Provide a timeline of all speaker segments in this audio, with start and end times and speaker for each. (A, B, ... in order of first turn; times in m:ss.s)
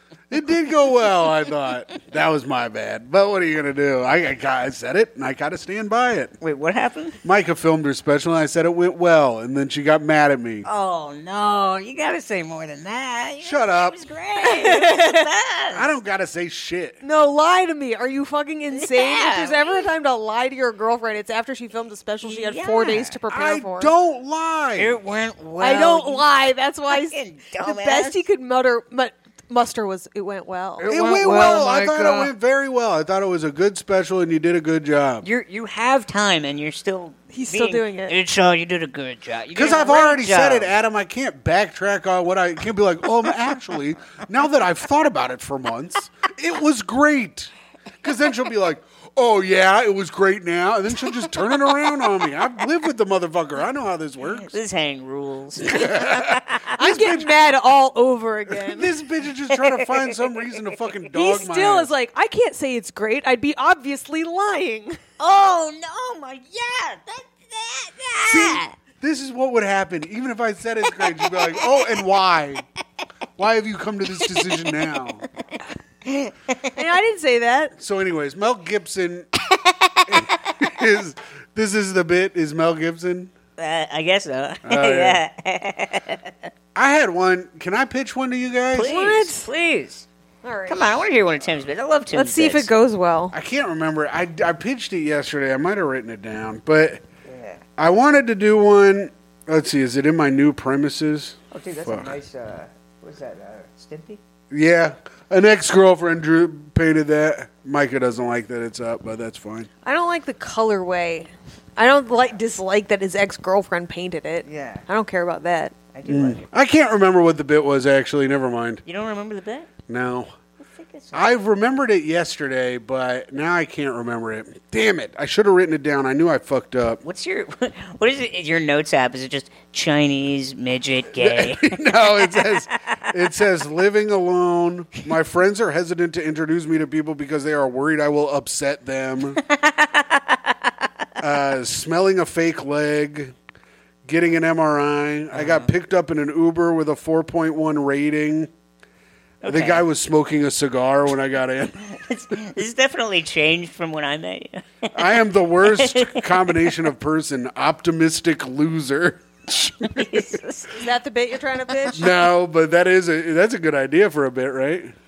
0:00.3-0:06.3 A
0:06.4-0:07.2 B
0:07.2-0:10.6 A
0:10.6-0:15.8 B
0:13.4-0:14.0 A
0:14.4-0:15.2 C
0:15.7-0:17.0 A
0:17.0-0:23.9 C
0:18.7-0:19.9 B
0:22.2-0:23.2 B
0:23.3-0:25.0 A
0:24.8-0:26.3 B
0:25.6-0:30.9 C
0:26.9-0:28.2 B
0:30.8-0:32.3 B
0:30.8-0:35.2 A
0:35.2-0:40.7 B
0:37.3-0:38.1 C
0:39.5-0:47.5 A
0:48.0-0:54.5 A
0:54.4-0:56.7 B
0:55.6-0:57.3 A
0:56.7-0:58.9 C
0:58.5-1:01.9 A
0:59.5-1:00.4 B
1:01.1-1:05.0 C
1:05.2-1:08.7 B
1:08.3-1:12.6 A
1:11.0-1:11.7 B
1:13.4-1:15.2 A
1:14.3-1:14.6 B
1:16.0-1:16.8 B
1:16.7-1:17.7 C
1:17.8-1:19.3 A
1:19.6-1:20.2 B
1:20.1-1:23.3 A
1:23.6-1:26.5 B
1:24.6-1:25.2 A
1:26.7-1:29.1 A
1:28.7-1:30.0 B
1:28.8-1:29.5 C
1:30.4-1:30.9 C
1:30.7-1:32.7 B
1:32.1-1:33.3 C
1:33.3-1:37.0 A
1:37.2-1:37.6 B
1:37.8-1:42.1 A
1:41.5-1:44.2 B
1:44.5-1:49.7 A
1:49.8-1:55.7 C
1:54.4-1:54.8 B
1:55.9-1:56.5 B
1:56.1-1:58.8 A
1:58.8-1:59.7 B
1:59.9-2:00.3 A
2:00.6-2:01.3 B
2:01.1-2:07.0 A
2:07.0-2:13.0 B
2:11.2-2:19.4 A
2:19.4-2:20.9 B
2:21.2-2:23.3 A
2:24.0-2:28.5 A
2:25.3-2:25.7 B
2:29.4-2:29.8 B
2:29.4-2:31.8 A
2:31.8-2:34.9 B
2:34.9-2:40.3 A
2:35.6-2:36.7 B
2:39.8-2:40.8 B
2:40.8-2:42.1 C
2:41.9-2:44.9 A